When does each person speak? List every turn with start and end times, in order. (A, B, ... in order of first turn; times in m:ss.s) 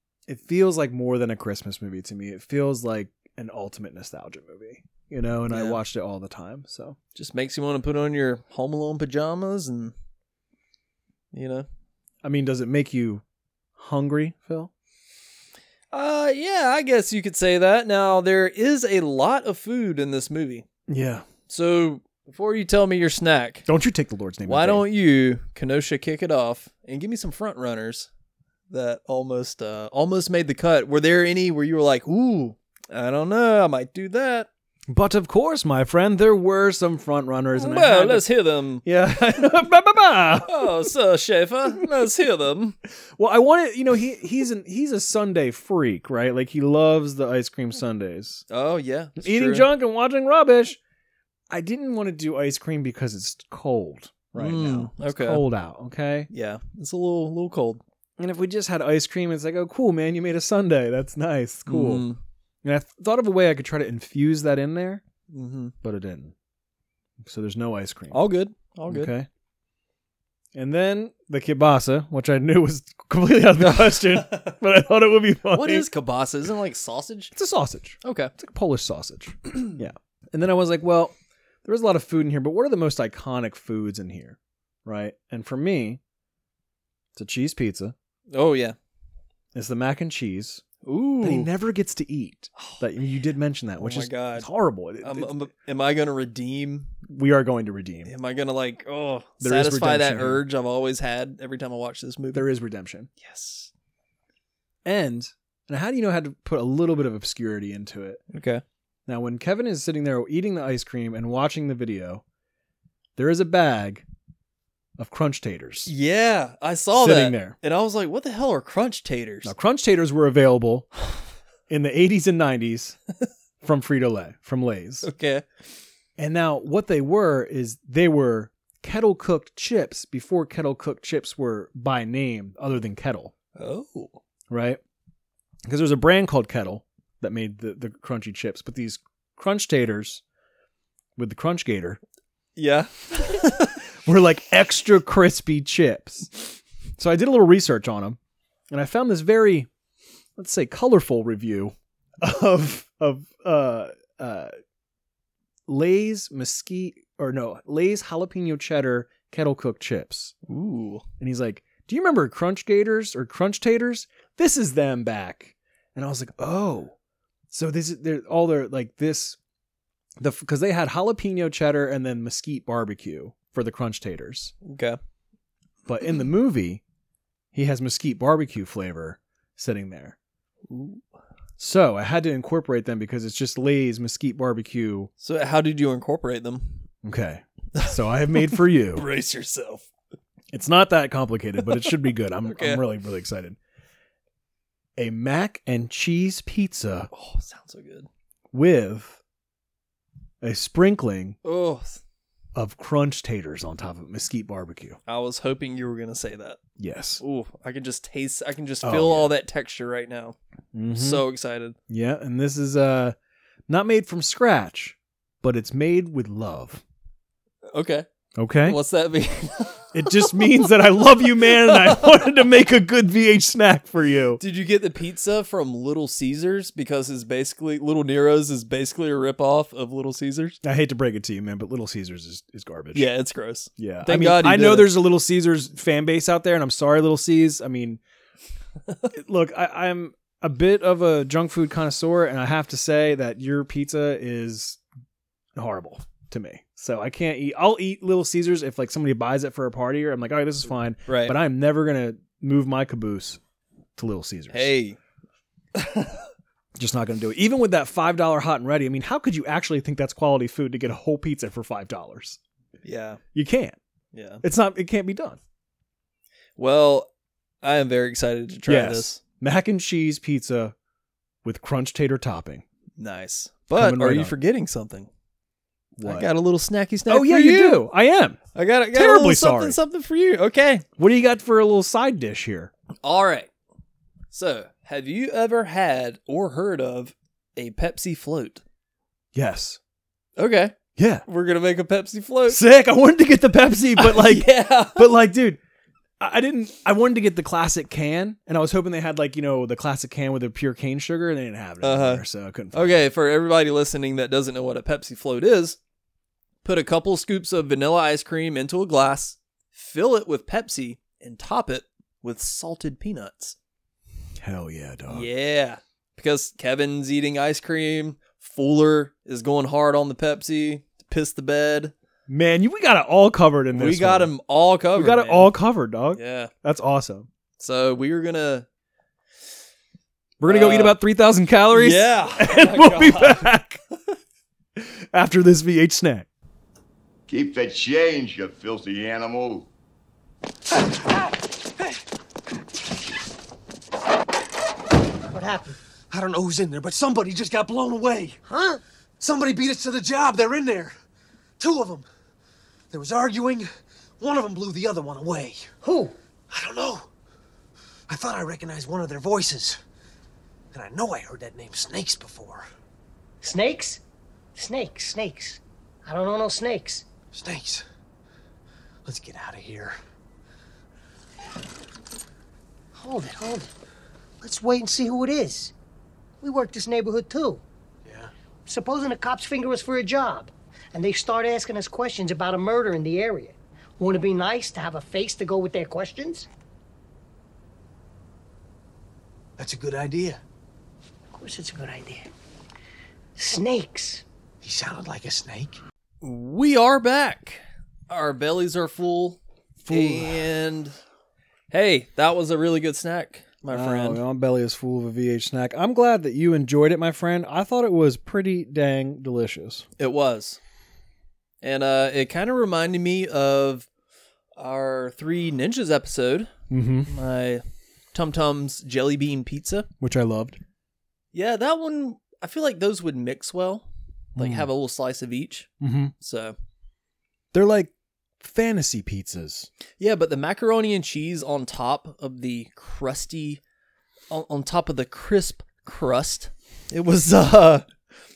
0:00.3-0:07.0 A
0:05.5-0:05.8 B
0:07.1-0:09.9 B
0:11.3-0:11.6 B
0:12.2-0:13.2 A
0:13.8-0:14.7 A
0:15.9-0:20.6 B
0:20.9-0:21.3 A
0:21.5-0:23.6 B
0:23.6-0:24.8 A
0:24.4-0:28.1 B
0:28.7-0:34.5 B
0:34.9-0:38.3 A
0:37.6-0:38.8 B
0:38.8-0:40.8 A
0:40.4-0:42.8 B
0:41.8-0:42.0 A
0:43.1-0:48.4 A
0:48.5-0:49.7 B
0:49.2-0:50.8 A
0:51.5-0:56.3 A
0:54.4-0:55.4 B
0:56.3-0:57.8 B
0:58.2-1:02.1 A
1:01.7-1:02.2 B
1:02.6-1:05.0 A
1:05.3-1:05.7 B
1:05.8-1:06.3 A
1:07.2-1:08.2 A
1:08.1-1:09.1 B
1:08.9-1:09.3 A
1:10.5-1:15.9 A
1:13.6-1:14.5 B
1:15.5-1:17.3 B
1:17.3-1:26.0 A
1:18.0-1:18.3 B
1:27.2-1:27.9 A
1:28.3-1:28.8 B
1:29.5-1:30.6 A
1:30.8-1:31.5 B
1:31.2-1:35.4 A
1:32.6-1:32.8 B
1:33.8-1:34.5 B
1:35.0-1:36.9 B
1:37.0-1:38.1 A
1:38.0-1:42.5 B
1:39.4-1:40.4 A
1:42.3-1:43.1 A
1:43.2-1:43.7 B
1:44.8-1:48.2 A
1:48.3-1:48.6 B
1:49.1-1:52.2 A
1:53.2-1:54.0 A
1:55.0-1:55.9 A
1:55.9-1:59.5 B
1:56.9-1:57.6 A
1:59.4-2:00.9 A
2:01.7-2:03.0 A
2:03.6-2:05.1 A
2:05.0-2:05.4 B
2:06.2-2:13.3 A
2:13.6-2:14.2 B
2:14.5-2:14.8 A
2:15.6-2:20.2 A
2:21.2-2:22.0 A
2:22.6-2:23.8 B
2:24.0-2:28.2 A
2:28.7-2:29.7 A
2:30.4-2:34.5 A
2:35.7-2:40.3 A
2:40.5-2:41.0 B
2:41.2-2:46.9 A
2:47.5-2:49.4 A
2:50.2-2:54.5 A
2:54.6-2:55.0 B
2:55.8-2:56.8 A
2:57.5-3:00.2 A
3:00.7-3:01.0 B
3:01.6-3:05.1 A
3:05.2-3:06.8 B
3:07.0-3:09.0 A
3:07.8-3:09.9 B
3:10.5-3:13.6 A
3:11.7-3:11.9 B
3:12.4-3:12.8 B
3:15.0-3:17.1 A
3:17.1-3:18.1 B
3:18.5-3:19.2 A
3:20.4-3:21.4 A
3:21.4-3:22.0 B
3:22.5-3:25.0 A
3:25.1-3:26.6 B
3:26.8-3:27.2 A
3:27.2-3:30.4 B
3:28.8-3:29.3 A
3:30.7-3:31.2 A
3:30.9-3:31.8 B
3:31.9-3:33.2 A
3:33.7-3:36.8 A
3:37.7-3:38.1 B
3:38.4-3:38.8 A
3:38.6-3:40.6 B
3:39.9-3:44.4 A
3:41.5-3:42.1 B
3:44.4-3:50.6 B
3:50.6-3:53.1 A
3:52.9-3:54.9 B
3:53.8-3:58.0 A
3:59.1-4:04.8 A
4:05.6-4:13.4 A
4:11.1-4:11.4 B
4:14.0-4:14.7 A
4:14.5-4:15.0 B
4:15.7-4:16.2 B
4:16.8-4:22.4 A
4:22.8-4:23.2 B
4:23.3-4:23.8 A
4:24.1-4:24.4 B
4:24.4-4:25.4 A
4:26.6-4:27.1 B
4:27.6-4:29.2 B
4:28.7-4:30.7 A
4:31.4-4:32.6 A
4:33.0-4:35.1 B
4:33.7-4:34.3 A
4:36.0-4:36.3 A
4:36.0-4:37.9 B
4:37.1-4:38.4 A
4:38.5-4:40.8 B
4:38.9-4:39.8 A
4:41.0-4:42.7 A
4:43.0-4:43.5 B
4:44.3-4:48.6 B
4:49.3-4:49.8 A
4:50.4-4:52.6 B
4:51.0-4:51.2 A
4:52.5-4:55.6 A
4:54.0-4:55.1 B
4:56.2-5:03.0 A
5:01.8-5:05.8 B
5:06.6-5:13.6 B
5:14.4-5:15.3 A
5:15.1-5:21.9 B
5:22.3-5:24.3 A
5:23.7-5:25.5 B
5:24.9-5:27.3 A
5:26.1-5:26.5 B
5:27.6-5:28.7 B
5:30.4-5:33.8 A
5:30.4-5:31.0 B
5:31.7-5:33.5 B
5:34.8-5:36.3 A
5:37.3-5:39.7 C
5:45.3-5:45.8 D
5:46.1-5:48.4 E
5:48.5-5:48.8 D
5:49.2-5:50.9 E
5:51.6-5:52.0 E
5:52.9-5:53.7 E
5:54.2-5:55.6 E
5:55.8-5:56.2 D
5:56.5-5:57.1 E
5:58.1-5:59.8 E
6:00.7-6:02.6 E
6:03.4-6:04.0 D
6:04.5-6:07.1 D
6:07.3-6:07.8 E
6:09.0-6:09.9 E
6:13.0-6:13.7 D
6:14.4-6:15.7 D
6:16.4-6:17.6 D
6:18.0-6:18.3 E
6:18.6-6:26.5 D
6:29.6-6:30.4 E
6:31.3-6:32.3 D
6:33.4-6:34.2 D
6:34.6-6:35.8 E
6:36.2-6:41.0 B
6:39.8-6:40.5 A
6:41.7-6:44.2 B
6:43.7-6:49.8 A
6:50.0-6:50.6 B
6:51.6-6:53.9 B
6:54.6-6:56.5 B
6:56.7-6:57.1 A
6:57.0-6:59.9 B
7:00.0-7:00.6 A
7:01.3-7:06.5 B
7:04.4-7:04.7 A
7:05.8-7:06.1 A
7:07.5-7:09.7 A
7:10.0-7:13.6 B
7:14.3-7:17.8 B